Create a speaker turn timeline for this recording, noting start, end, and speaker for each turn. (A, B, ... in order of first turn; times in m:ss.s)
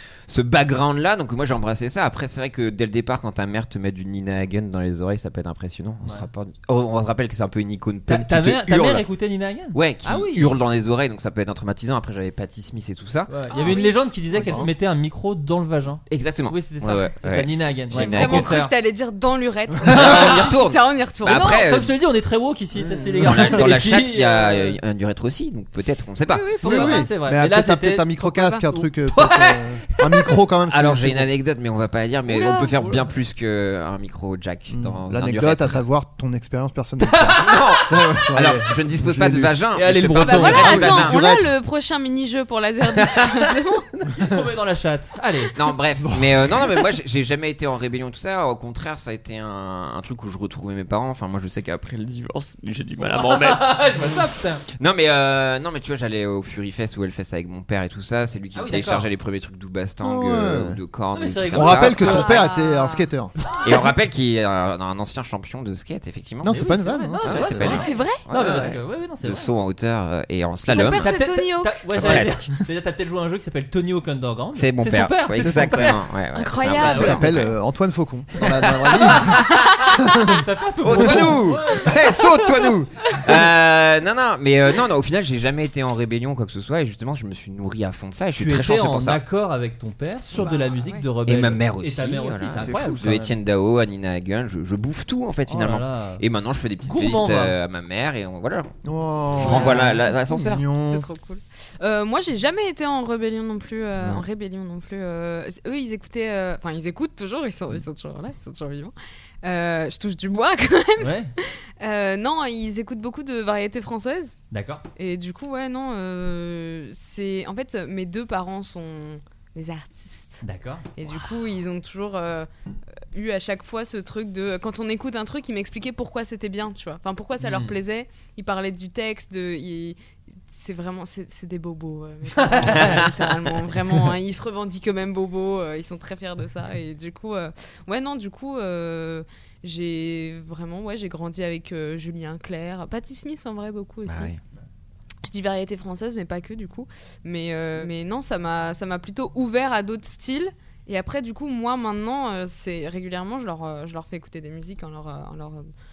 0:00.3-0:09.0 A
0:08.1-0:10.5 B
0:09.7-0:13.3 A
0:13.3-0:18.7 B
0:13.5-0:14.6 C
0:14.3-0:14.7 D
0:16.1-0:18.6 A
0:17.9-0:21.6 C
0:19.9-0:21.9 A
0:19.9-0:20.5 B
0:21.3-0:24.8 B
0:22.9-0:26.5 A
0:23.1-0:23.6 D
0:26.3-0:27.1 C
0:26.6-0:30.4 B
0:26.6-0:31.3 D
0:30.7-0:35.8 A
0:32.3-0:32.7 C
0:32.3-0:33.0 B
0:34.7-0:39.5 D
0:37.0-0:37.6 B
0:37.4-0:41.2 A
0:39.7-0:40.9 B
0:40.2-0:43.9 C
0:40.6-0:41.5 D
0:43.0-0:43.4 A
0:44.1-0:45.6 B
0:45.6-1:02.4 A
0:46.0-0:46.6 D
0:53.1-0:54.6 B
0:58.5-0:59.1 B
1:00.0-1:00.8 D
1:01.1-1:02.3 B
1:01.5-1:03.3 D
1:02.0-1:03.1 C
1:03.6-1:06.6 A
1:06.4-1:07.9 D
1:06.5-1:09.5 B
1:07.2-1:11.1 A
1:07.6-1:08.2 C
1:08.4-1:08.7 D
1:10.7-1:11.9 C
1:10.8-1:16.0 B
1:11.9-1:12.5 A
1:14.6-1:17.4 A
1:15.4-1:16.0 D
1:16.3-1:17.5 C
1:16.8-1:17.2 B
1:16.8-1:20.3 D
1:18.7-1:19.4 A
1:19.1-1:19.6 B
1:19.6-1:20.0 C
1:20.1-1:22.3 B
1:20.8-1:29.2 A
1:20.9-1:21.4 D
1:28.4-1:33.3 B
1:30.3-1:31.0 C
1:31.3-1:38.7 A
1:32.6-1:33.1 D
1:35.5-1:36.2 B
1:36.8-1:37.6 B
1:38.8-1:41.1 D
1:39.3-1:40.6 A
1:39.4-1:39.9 C
1:40.8-1:54.4 C
1:51.0-1:51.3 B
1:54.5-1:54.8 B
1:55.0-2:00.4 C
2:00.4-2:00.9 B
2:01.0-2:02.5 C
2:03.1-2:10.0 C
2:07.4-2:07.8 B
2:10.5-2:24.3 C
2:12.4-2:13.1 B
2:24.0-2:24.4 A
2:25.2-2:35.7 C